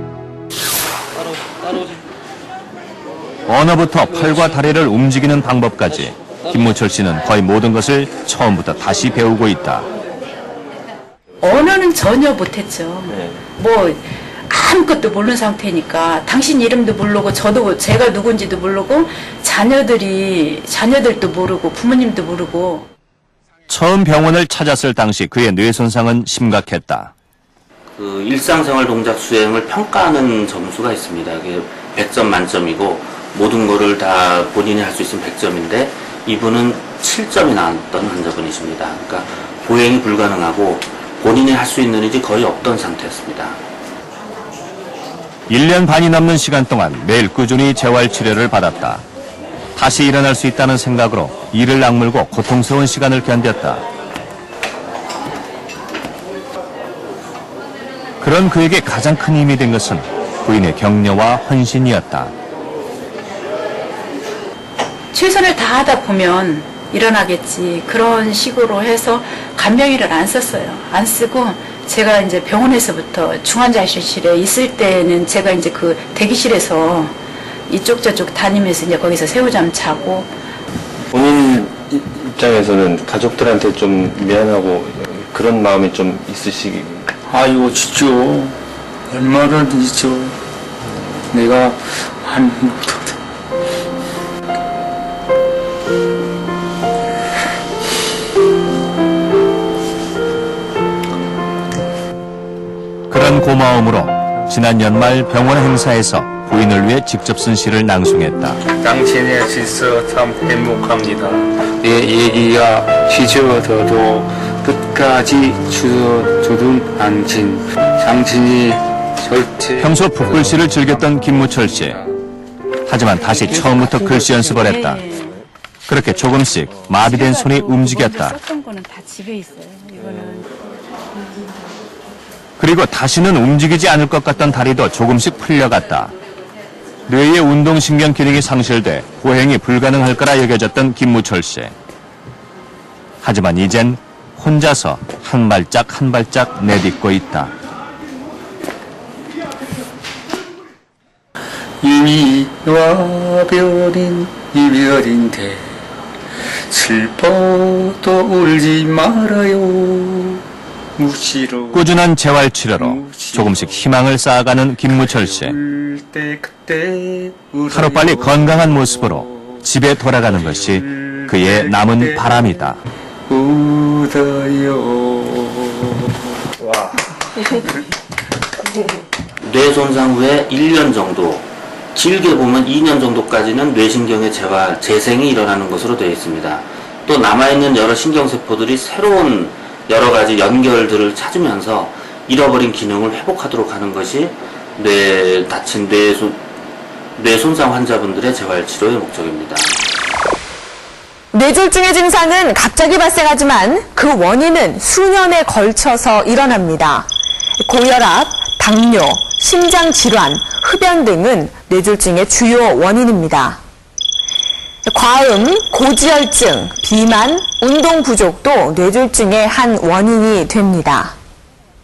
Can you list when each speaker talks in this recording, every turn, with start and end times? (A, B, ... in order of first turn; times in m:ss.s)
0:03.5-0:09.8 A
0:11.4-0:22.9 B
0:23.7-0:27.1 A
0:27.9-0:43.6 C
0:45.5-0:49.0 A
0:49.8-0:53.8 A
0:58.2-1:02.3 A
1:05.1-1:17.2 B
1:17.7-1:20.3 B
1:21.1-1:27.0 D
1:27.2-1:28.6 E
1:29.1-1:30.4 E
1:31.3-1:33.2 E
1:43.1-1:48.6 A
1:48.7-1:59.9 E
1:59.8-2:02.0 A
2:02.9-2:05.0 A
2:03.5-2:05.4 B
2:05.9-2:08.4 A
2:07.0-2:10.5 B
2:12.6-2:16.1 A
2:17.1-2:21.7 A
2:23.2-2:27.5 A
2:31.8-2:35.7 E
2:36.7-2:40.4 E
2:41.0-2:41.8 E
2:41.7-2:45.6 A
2:42.8-2:43.8 E
2:45.2-2:49.5 E
2:47.7-2:52.8 A
2:50.7-2:52.3 E
2:53.3-2:56.2 E
2:59.4-3:16.4 C
3:17.2-3:19.8 C
3:21.3-3:27.1 F
3:27.6-3:33.6 F
3:34.8-3:41.1 F